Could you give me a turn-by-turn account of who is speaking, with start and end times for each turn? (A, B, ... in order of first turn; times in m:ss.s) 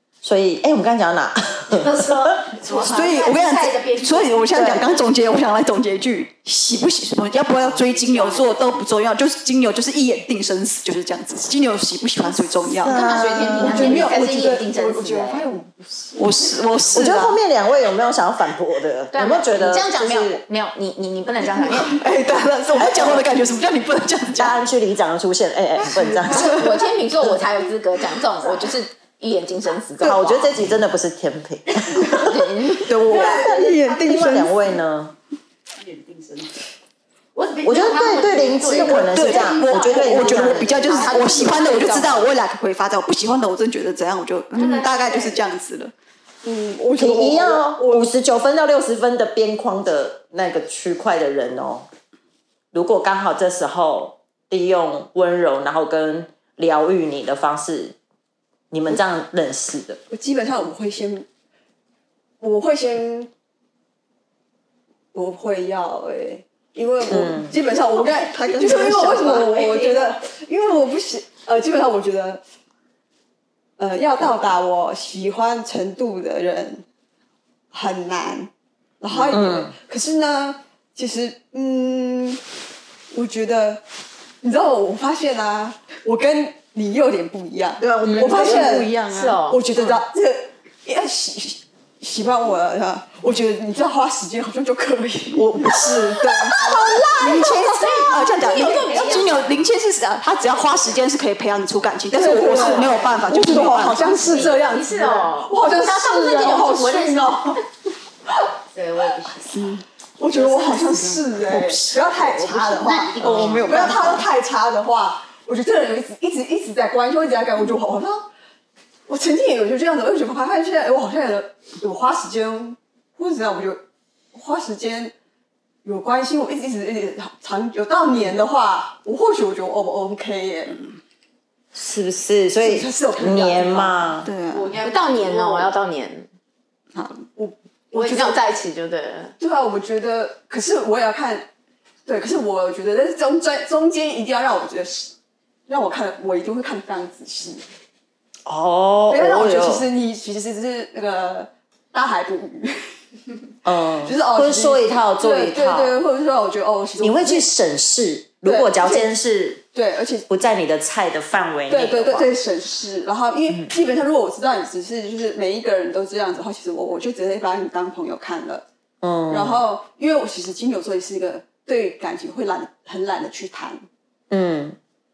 0:00.2-0:02.3 A
0:01.7-0:04.6 B
0:02.7-0:12.9 C
0:07.5-0:08.8 B
0:12.7-0:14.0 A
0:12.9-0:15.4 D
0:13.5-0:16.3 E
0:16.2-0:17.4 C
0:16.9-0:20.4 A
0:19.1-0:22.0 D
0:21.8-0:24.6 C
0:24.4-0:26.7 A
0:25.9-0:26.4 E
0:26.3-0:30.5 D
0:30.0-0:32.5 A
0:32.1-0:32.8 D
0:32.9-0:33.4 C
0:32.9-0:34.6 E
0:33.1-0:33.6 B
0:33.3-0:35.1 A
0:35.8-0:36.6 B
0:37.4-0:41.9 B
0:37.6-0:41.0 A
0:38.7-0:45.9 C
0:40.9-0:42.3 D
0:44.5-0:45.4 B
0:46.4-0:48.1 E
0:47.0-0:51.9 A
0:52.7-0:58.0 A
0:58.7-1:00.0 A
1:00.1-1:01.3 E
1:02.4-1:03.3 E
1:05.1-1:12.4 E
1:07.1-1:07.6 A
1:08.7-1:09.7 C
1:09.2-1:10.1 B
1:13.8-1:16.8 E
1:17.7-1:22.4 E
1:19.3-1:19.7 A
1:23.1-1:23.8 E
1:24.4-1:37.5 E
1:27.8-1:29.4 B
1:28.0-1:29.1 C
1:28.1-1:30.0 D
1:35.4-1:44.5 C
1:37.3-1:39.7 B
1:37.5-1:39.5 D
1:40.5-1:41.0 B
1:42.1-1:47.6 E
1:42.3-1:44.5 B
1:44.2-1:47.3 D
1:48.7-1:49.5 B
1:49.5-1:49.8 C
1:50.2-1:58.3 E
1:50.3-1:51.2 B
1:51.5-1:51.9 A
1:52.6-1:54.2 B
1:53.2-1:54.1 C
1:53.2-1:54.0 A
1:59.1-2:03.8 E
2:04.3-2:05.1 E
2:05.8-2:10.8 E
2:11.7-2:14.3 A
2:12.6-2:14.0 E
2:14.2-2:14.7 C
2:14.5-2:15.8 B
2:14.8-2:16.3 D
2:17.0-2:17.2 C
2:17.4-2:18.2 E
2:17.9-2:19.3 D
2:19.4-2:21.5 E
2:22.1-2:25.1 E
2:25.7-2:27.6 E
2:28.5-2:29.9 A
2:29.1-2:32.9 E
2:33.6-2:36.0 A
2:34.0-2:37.5 E
2:37.0-2:39.6 A
2:38.4-2:39.1 E
2:39.7-2:40.3 E
2:40.3-2:42.3 A
2:41.7-2:48.6 E
2:49.0-2:49.6 A
2:49.3-2:53.8 E
2:54.3-2:54.8 A